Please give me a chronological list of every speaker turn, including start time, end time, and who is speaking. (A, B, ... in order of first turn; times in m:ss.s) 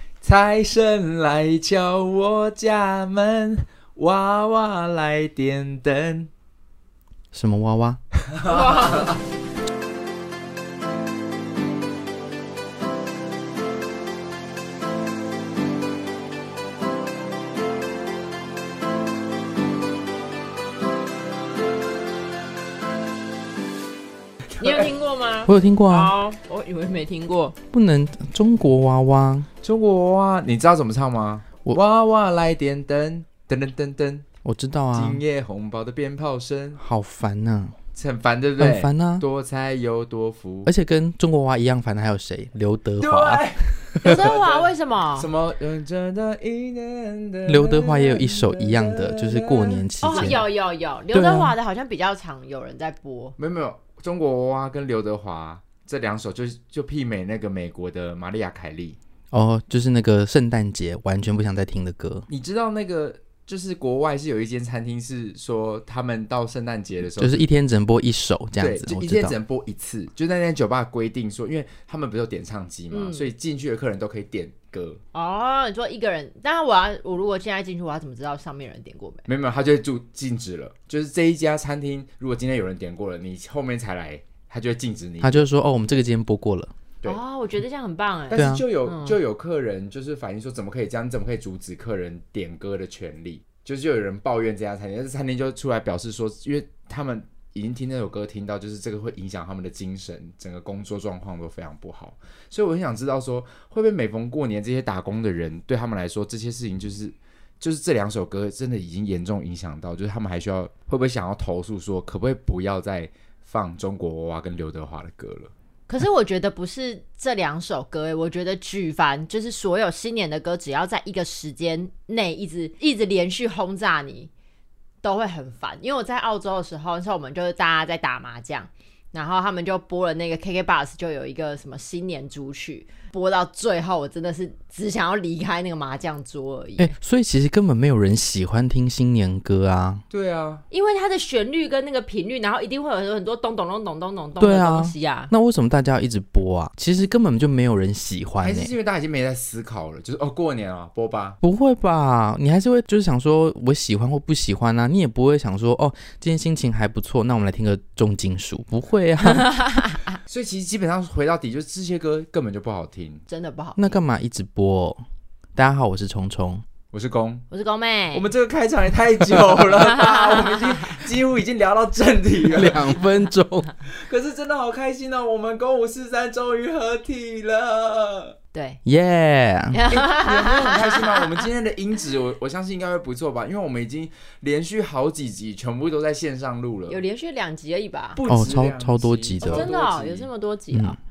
0:00.2-0:06.3 A
0:07.3-0:08.0 B
0:08.3-0:09.2 A
0:08.4-0:09.2 C
0:24.5-0:24.9 A
0:24.6-0:27.6 C
0:25.4-0:26.1 B
0:27.7-0:29.5 B
0:29.6-0:34.2 A
0:34.4-0:35.2 B
0:34.9-0:36.8 A
0:36.8-0:37.8 B
0:37.9-0:40.7 A
0:38.6-0:39.2 B
0:40.6-0:43.5 B
0:43.0-0:50.4 A
0:44.0-0:45.3 C
0:47.4-0:50.4 B
0:50.0-0:53.4 C
0:51.1-0:51.5 B
0:53.4-0:59.0 A
0:59.3-1:02.3 B
1:02.3-1:07.5 A
1:07.1-1:09.4 B
1:08.6-1:15.0 A
1:12.9-1:13.3 C
1:15.1-1:19.2 C
1:19.3-1:25.4 A
1:25.2-1:26.7 B
1:27.0-1:29.2 C
1:28.3-1:55.5 A
1:28.4-1:28.6 B
1:55.9-2:04.3 C
2:05.0-2:16.9 C
2:16.8-2:20.0 B
2:20.1-2:20.6 A
2:20.7-2:25.3 C
2:24.4-2:28.7 B
2:28.4-2:31.4 A
2:31.4-2:39.5 B
2:40.2-2:43.2 A
2:43.3-2:44.0 C
2:43.8-2:45.0 B
2:45.6-2:46.6 B
2:46.9-2:47.4 A
2:47.5-2:48.3 C
2:48.1-2:53.0 A
2:52.5-2:53.7 B
2:53.8-2:58.3 A
2:58.5-2:58.8 C
2:58.8-2:59.8 B
2:59.7-3:01.4 C
2:59.9-3:07.0 A
3:06.9-3:08.2 C
3:08.1-3:10.3 A
3:08.3-3:09.6 B
3:09.4-3:11.0 C
3:10.7-3:11.0 B